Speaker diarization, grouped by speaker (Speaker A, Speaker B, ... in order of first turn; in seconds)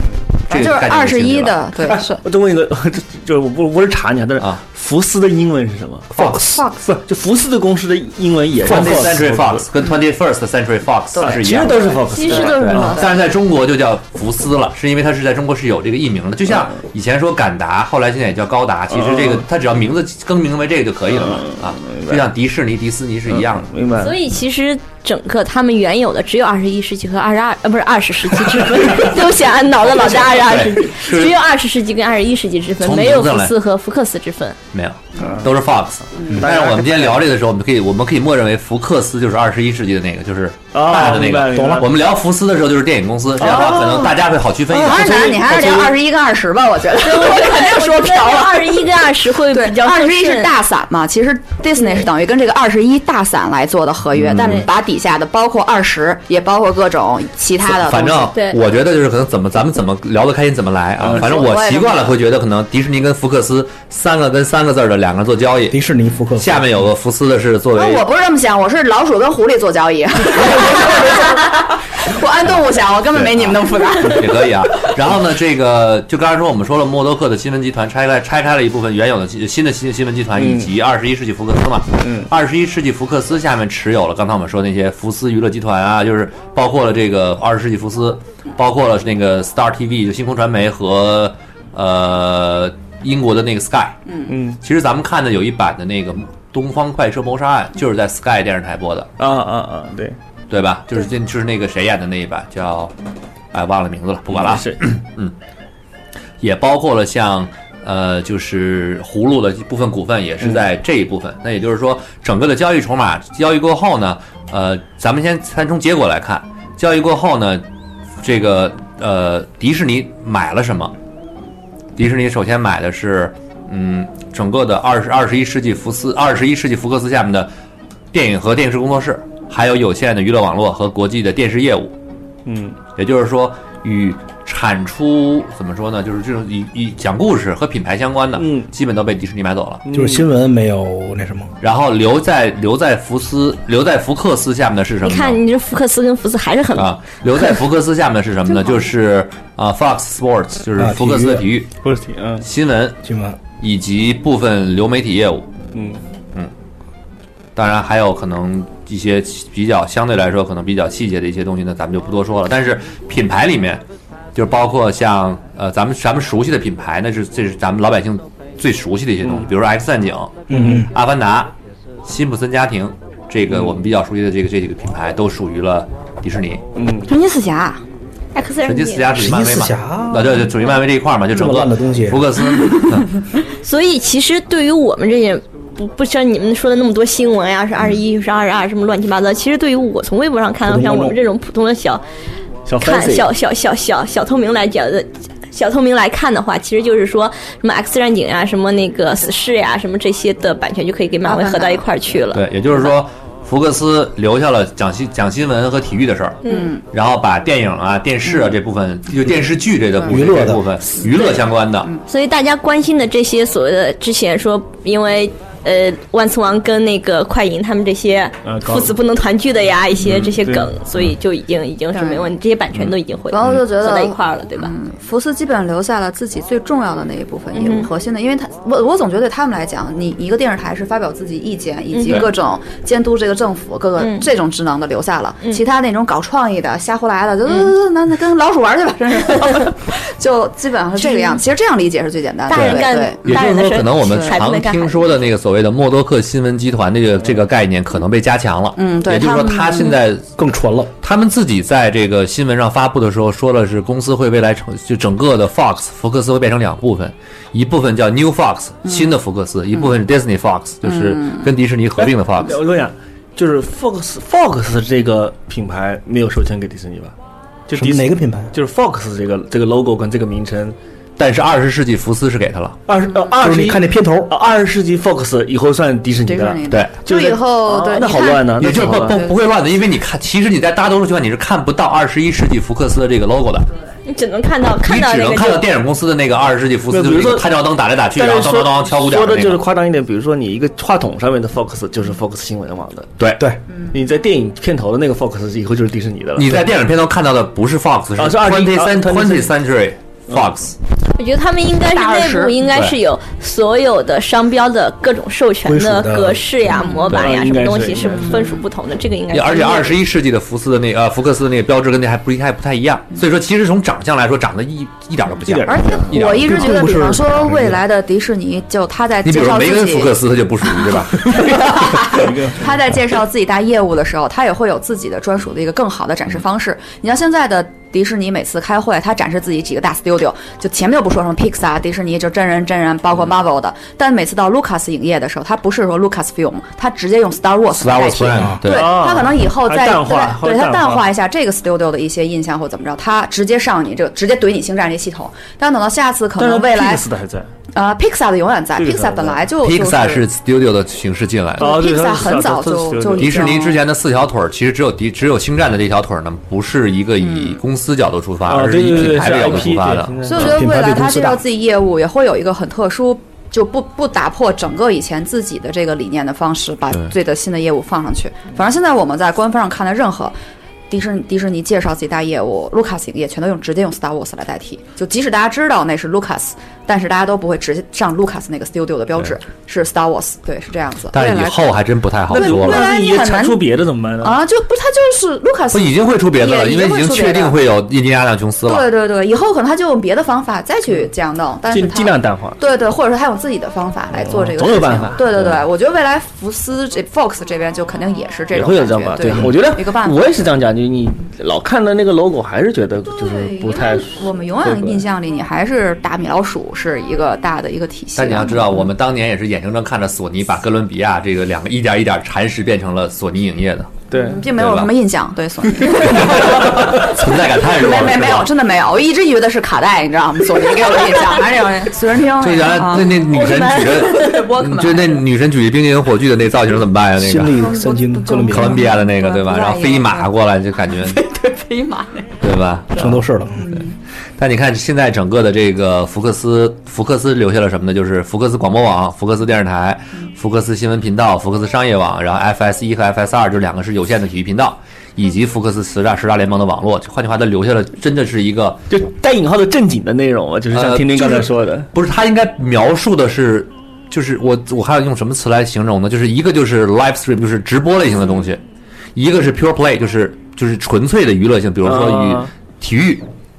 Speaker A: 0.5-1.7, 4.4-4.6, 6.2-6.5, 8.6-23.7, 28.6-29.1, 29.8-31.4, 32.8-33.5, 34.7-45.4, 54.1-54.7, 57.6-65.8, 66.4-68.0, 74.0-94.0, 94.6-99.1, 100.5-102.9, 103.5-105.3, 106.4-117.6, 118.2-120.9, 122.0-127.5, 128.1-131.9, 132.9-139.8, 141.6-145.4, 146.7-151.7, 152.4-153.0, 153.6-155.5, 157.6-163.8, 164.3-171.5, 172.0-176.6, 178.6-183.2, 202.3-211.9, 242.6-250.3, 251.0-262.6, 271.2-272.8, 276.7-276.9, 278.6-283.7, 284.8-289.6, 293.2-293.5, 296.4-300.7, 302.6-302.9, 307.1-307.4, 309.3-317.5, 319.2-321.6, 337.8-339.0, 349.6-351.8, 353.2-360.1, 381.1-382.9, 385.7-388.9, 408.1-414.9, 415.8-418.5, 422.4-427.6, 428.5-431.2, 432.4-433.2, 434.4-448.8, 450.7-458.6, 459.1-463.2
Speaker B: 0.5-2.2, 6.5-6.8, 11.1-13.2, 44.8-58.3, 61.1-62.2, 67.8-74.3, 177.1-177.8, 201.2-201.8, 206.5-206.8, 211.2-212.0, 221.9-222.3, 223.3-243.4, 244.0-244.3, 248.8-250.0, 260.9-261.4, 276.2-279.4, 301.9-302.6, 306.7-307.1, 308.0-308.6, 315.6-320.1, 321.2-347.0, 347.7-350.2, 351.6-353.8, 357.2-357.6, 360.2-370.3, 370.9-383.7, 384.2-387.6, 388.6-400.5, 403.1-408.9, 414.1-425.2, 427.5-430.3, 431.0-432.3, 432.9-433.9
Speaker C: 1.8-9.6, 11.2-13.0, 16.5-16.8, 18.9-19.4, 21.1-22.2, 23.3-24.1, 35.2-35.5, 36.4-37.2, 40.7-41.9, 43.4-44.1, 44.7-45.9, 61.0-61.3, 80.3-80.7, 82.0-82.3, 94.3-94.6, 99.2-100.2, 104.3-104.8, 132.4-132.8, 138.3-138.7, 139.8-140.3, 151.8-152.4, 155.7-156.0, 170.5-170.8, 173.5-173.8, 176.7-177.1, 192.7-193.3, 218.4-218.9, 220.2-220.7, 262.0-267.1, 267.7-270.8, 272.9-279.2, 286.9-287.5, 288.1-293.1, 293.9-296.7, 298.2-299.5, 307.1-308.5, 315.4-316.9, 322.0-322.7, 338.6-341.1, 346.4-347.5, 348.8-349.5, 351.6-353.5, 358.4-360.6, 382.3-384.4, 391.7-392.6, 394.1-395.6, 398.5-405.0, 414.1-414.4, 448.9-451.9, 461.8-462.5
Speaker D: 12.1-12.6, 24.0-34.6, 47.0-50.5, 58.3-58.6, 145.0-146.9, 178.3-179.1, 183.6-192.0, 192.8-202.4, 212.1-224.7, 227.5-227.9, 231.9-232.3, 234.0-234.2, 241.0-241.4, 242.5-245.2, 284.1-285.7, 301.1-310.0, 423.3-424.4
Speaker E: 41.5-41.8, 65.7-66.8, 139.9-141.5, 150.8-151.5, 153.0-153.4, 170.5-170.9, 179.1-180.5, 181.3-182.3, 190.7-191.2, 210.1-210.7, 250.4-250.9, 267.7-268.5, 273.4-274.3, 305.6-306.6, 360.4-361.4, 427.2-428.9, 432.9-433.7